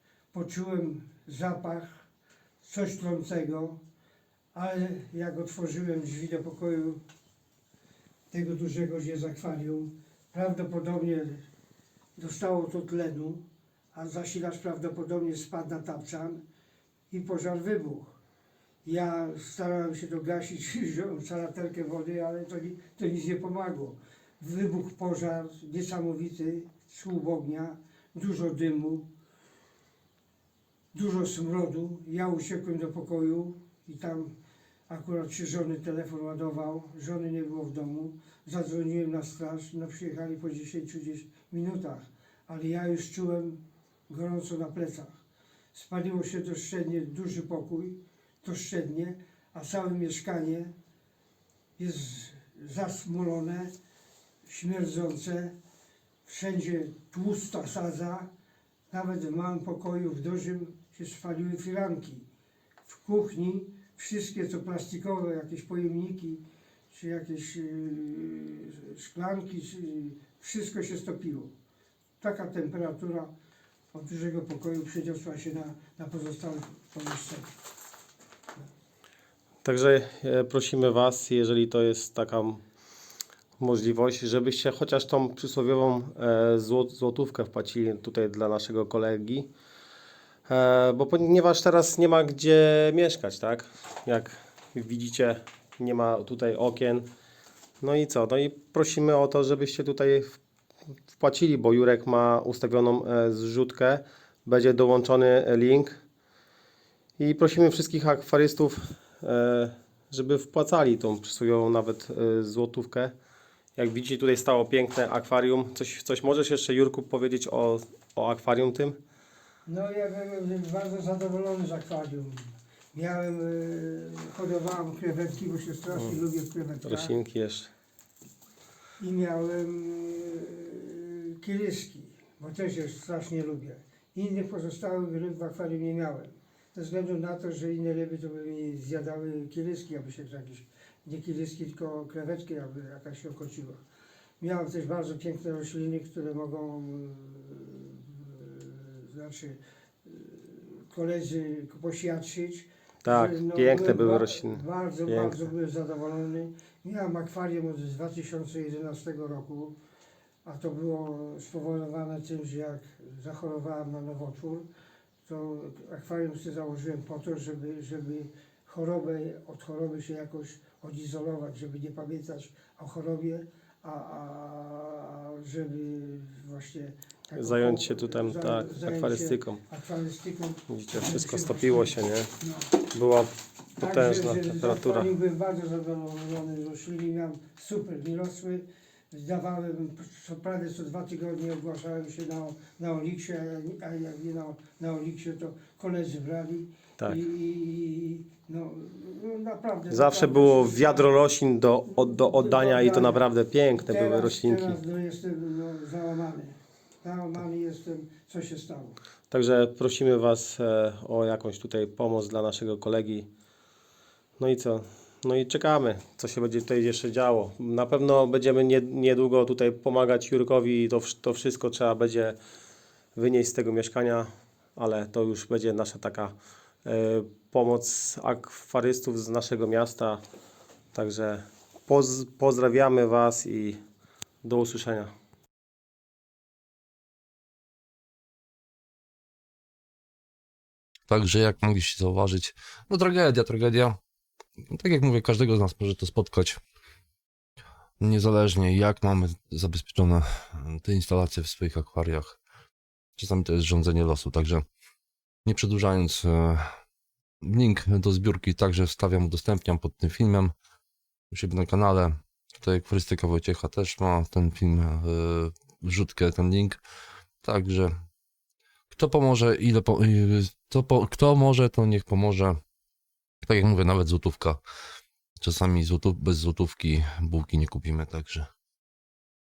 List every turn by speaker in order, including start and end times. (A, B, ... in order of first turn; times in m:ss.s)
0:00.3-0:02.0 A
0:02.6-0:03.8 A
0:04.5-0:07.0 A
0:08.3-0:11.4 A
0:12.2-0:16.4 A
0:17.1-0:18.2 A
0:18.8-0:29.1 A
0:30.9-0:34.3 A
0:34.9-0:45.2 A
0:45.7-0:50.7 A
0:51.8-0:53.7 A
0:54.4-0:55.6 A
0:56.3-0:58.3 A
0:58.9-1:02.3 A
1:02.8-1:11.5 A
1:12.2-1:13.3 A
1:13.9-1:17.5 A
1:19.6-1:22.6 B
1:23.6-1:29.5 B
1:30.5-1:37.1 B
1:37.8-1:40.4 B
1:41.1-1:46.0 B
1:47.2-1:53.1 B
1:53.8-1:59.0 B
1:59.7-2:07.1 A
2:05.9-2:06.2 B
2:06.8-2:07.7 B
2:09.0-2:23.8 A
2:24.4-2:39.8 A
2:33.0-2:35.4 B
2:40.4-2:44.7 A
2:45.3-3:02.7 A
2:57.4-2:59.6 B
3:00.7-3:02.3 B
3:02.9-3:05.1 B
3:03.8-3:21.2 A
3:19.9-3:24.8 B
3:21.9-3:29.0 A
3:29.3-3:33.3 B
3:34.4-3:42.4 B
3:43.2-3:50.2 B
3:50.9-3:53.8 B
3:54.4-3:55.1 B
4:01.1-4:04.0 C
4:04.7-4:06.6 C
4:08.0-4:12.4 C
4:13.2-4:14.6 C
4:15.5-4:16.6 C
4:17.5-4:20.5 C
4:21.3-4:26.8 C
4:27.4-4:27.9 C
4:29.0-4:32.6 C
4:33.4-4:34.6 C
4:35.4-4:38.5 C